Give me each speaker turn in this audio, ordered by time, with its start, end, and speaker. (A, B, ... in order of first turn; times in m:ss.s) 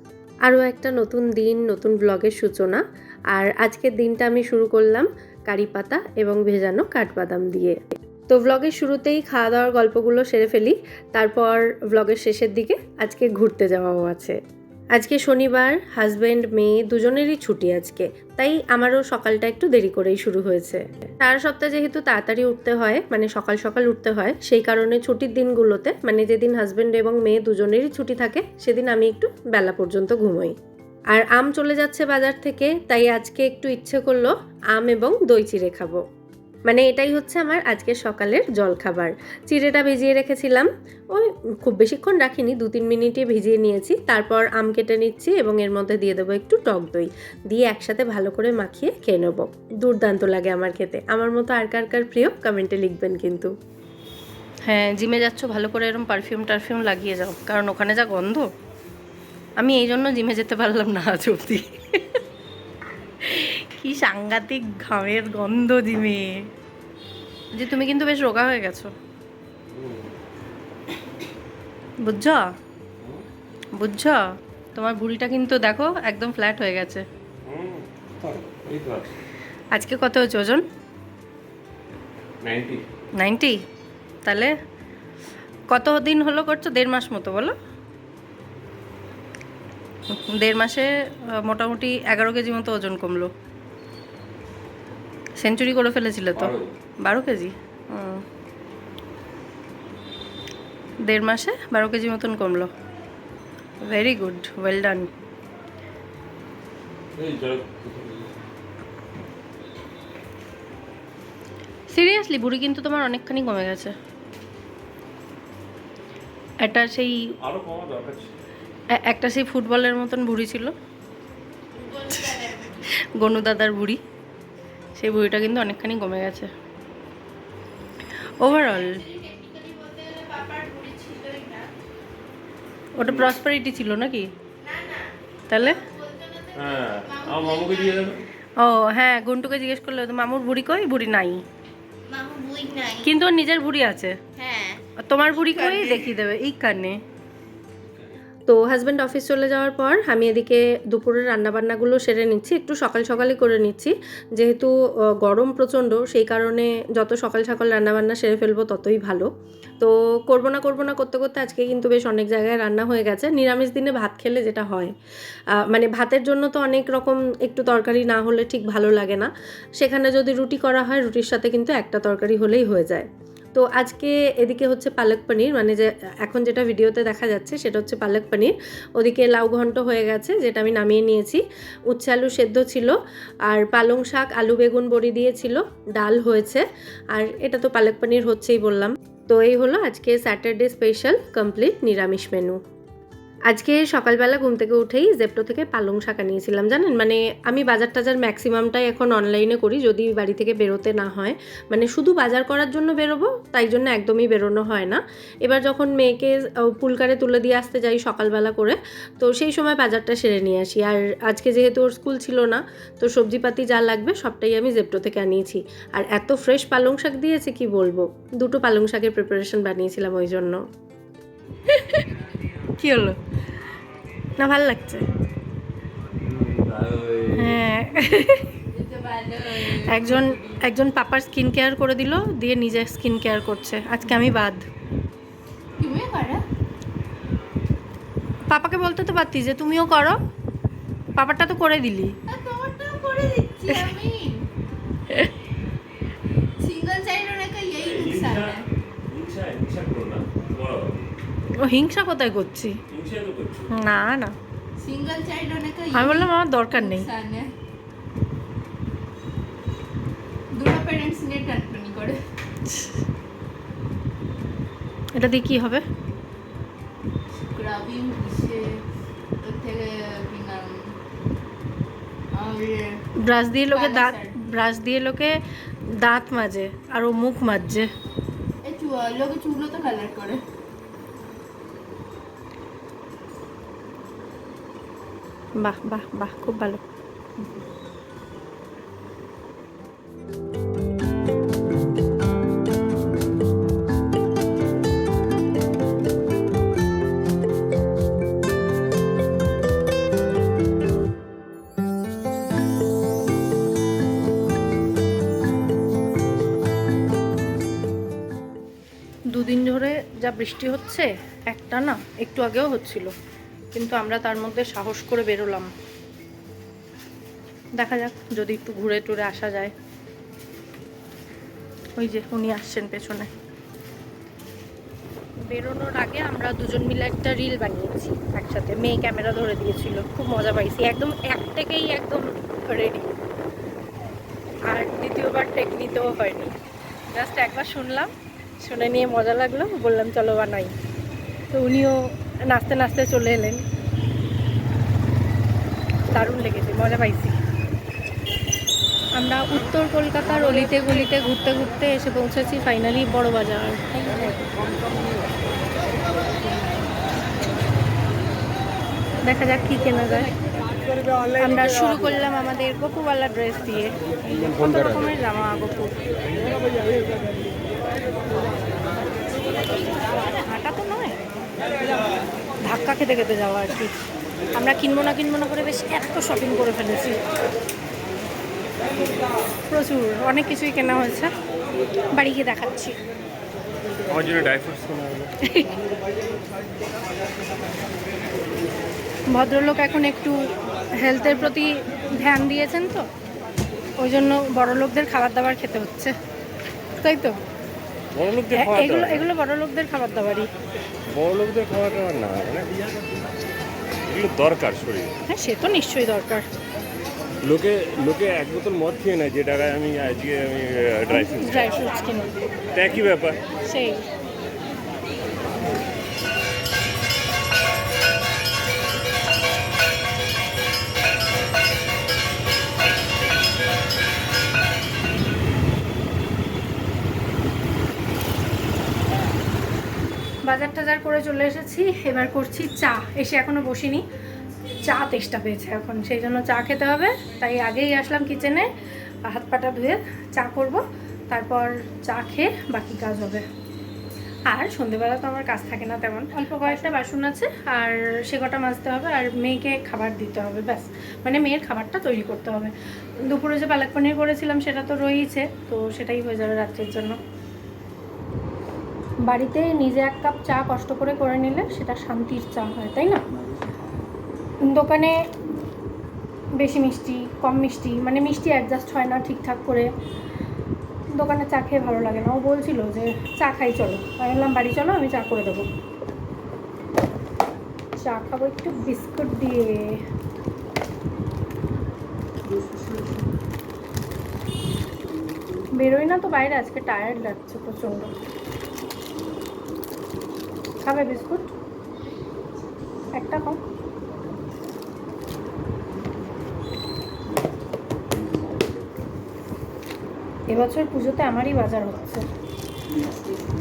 0:00.5-0:07.8 A
0:08.3-0:14.4 A
0:15.0-0:30.6 A
0:31.1-0:36.0 A
0:36.7-0:53.5 A
0:54.7-0:58.5 B
0:59.6-1:02.0 B
1:03.2-1:06.4 B
1:07.5-1:08.9 B
1:09.7-1:10.1 C
1:12.0-1:12.4 B
1:13.8-1:14.2 B
1:14.8-1:17.0 B
1:17.5-1:19.1 C
1:19.7-1:20.6 B
1:22.4-1:22.8 C
1:23.2-1:23.6 B
1:24.2-1:24.5 B
1:25.7-1:27.5 B
1:30.1-1:33.3 B
1:35.4-1:38.2 B
1:36.3-1:36.7 C
1:41.0-1:42.7 B
1:43.8-1:45.1 B
1:47.2-1:48.3 C
1:51.9-1:53.9 B
1:56.6-1:57.2 B
1:57.4-1:58.3 C
1:59.0-2:00.7 B
2:01.8-2:02.9 D
2:03.2-2:04.0 B
2:05.0-2:06.5 B
2:08.4-2:09.0 B
2:08.4-2:11.7 D
2:13.0-2:14.3 B
2:13.0-2:13.4 C
2:14.6-2:18.2 D
2:15.5-2:15.8 B
2:16.6-2:18.2 C
2:18.6-2:21.4 B
2:22.1-2:23.1 D
2:23.0-2:24.2 B
2:24.4-2:26.1 D
2:25.0-2:27.0 B
2:28.5-2:39.3 A
2:39.8-2:44.9 A
2:45.6-3:03.0 A
3:03.5-3:12.6 A
3:13.5-3:40.6 A
3:42.8-3:43.2 B
3:44.4-3:45.1 B
3:46.2-3:47.6 C
3:47.4-3:48.6 B
3:48.7-3:50.6 D
3:49.8-3:54.6 B
3:55.8-3:56.4 D
3:58.5-4:00.2 B
4:01.2-4:02.1 B
4:02.3-4:04.3 D
4:06.6-4:08.6 D
4:07.8-4:11.0 C
4:11.6-4:12.8 B
4:12.9-4:13.8 C
4:13.7-4:14.4 B
4:14.8-4:17.5 D
4:15.9-4:17.1 B
4:20.6-4:22.2 D
4:25.2-4:25.8 B
4:27.4-4:28.7 D
4:29.4-4:31.0 D
4:32.3-4:32.9 D
4:33.2-4:35.4 B
4:33.7-4:34.3 D
4:36.0-4:37.9 B
4:38.6-4:40.4 D
4:45.6-4:46.8 B
5:09.3-5:13.1 B
5:13.7-5:15.7 B
5:17.8-5:19.7 B
5:22.0-5:23.3 B
5:25.5-5:33.1 B
5:34.7-5:36.5 B
5:37.1-5:40.7 B
5:41.5-5:43.6 B
5:46.1-5:47.4 B
5:49.2-5:54.4 B
5:59.2-6:00.3 B
6:01.4-6:06.0 B
6:10.1-6:11.2 B
6:12.6-6:14.0 B
6:14.6-6:17.2 B
6:19.7-6:21.3 B
6:22.1-6:23.0 B
6:24.1-6:25.3 C
6:29.3-6:30.4 B
6:31.0-6:33.0 B
6:34.0-6:36.1 B
6:37.0-6:37.4 B
6:38.2-6:39.3 C
6:38.5-6:40.5 B
6:41.1-6:42.7 C
6:44.1-6:45.2 C
6:45.3-6:46.5 B
6:47.4-6:51.8 C
6:51.1-6:52.4 B
6:52.8-6:53.4 C
6:53.6-6:54.0 B
7:10.5-7:14.0 B
7:14.8-7:18.7 B
7:19.3-7:23.4 B
7:24.5-7:32.7 B
7:26.4-7:27.0 A
7:33.2-7:37.2 B
7:39.2-7:43.2 B
7:44.7-7:45.2 B
7:46.6-7:49.9 B
7:51.1-7:55.7 B
7:58.0-8:00.0 B
8:05.8-8:08.1 B
8:10.8-8:11.5 B
8:13.1-8:13.6 B
8:18.3-8:18.7 C
8:20.5-8:22.2 B